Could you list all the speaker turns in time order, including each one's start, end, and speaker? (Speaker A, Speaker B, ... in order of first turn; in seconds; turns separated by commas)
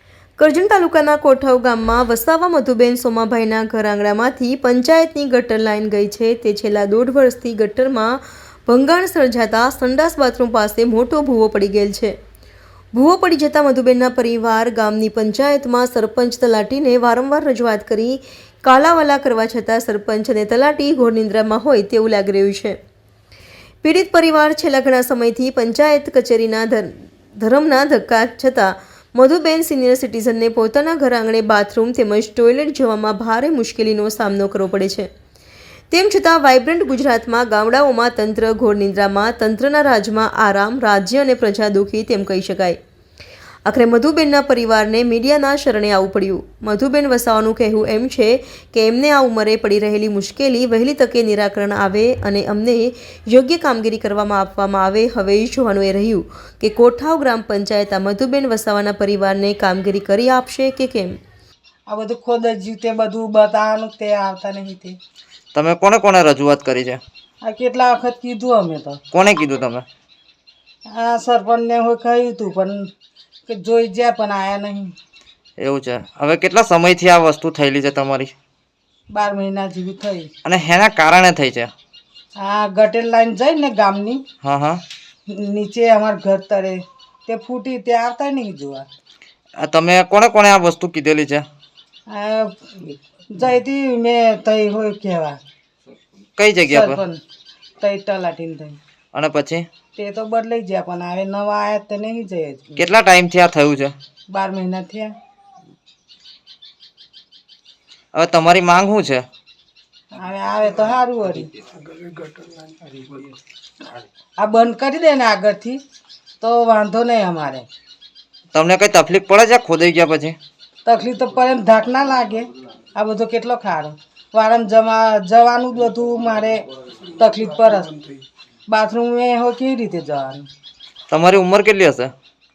Speaker A: 0.4-12.1, Speaker A: 12.9-22.8, Speaker A: 23.8-35.1, Speaker A: 35.9-42.8, Speaker A: 43.6-61.2, Speaker B: 61.9-65.0, Speaker C: 65.5-67.0, Speaker B: 67.4-69.0, Speaker C: 69.1-69.8, Speaker B: 70.9-72.9, Speaker B: 73.5-74.9, Speaker C: 75.6-78.3, Speaker B: 79.1-80.3, Speaker C: 80.4-81.7, Speaker B: 82.4-84.2, Speaker C: 84.4-84.8, Speaker B: 85.3-88.9, Speaker C: 89.6-91.5, Speaker B: 92.1-95.4, Speaker C: 96.4-97.0, Speaker B: 96.6-97.2, Speaker B: 97.8-98.8, Speaker C: 99.1-99.7, Speaker B: 100.0-102.7, Speaker C: 102.8-103.9, Speaker B: 104.3-105.1, Speaker C: 108.1-109.2, Speaker B: 110.1-111.5, Speaker B: 114.4-115.8, Speaker B: 116.4-117.7, Speaker C: 118.5-120.4, Speaker B: 120.8-126.6, Speaker B: 127.2-128.0, Speaker B: 128.7-130.4, Speaker C: 131.1-132.1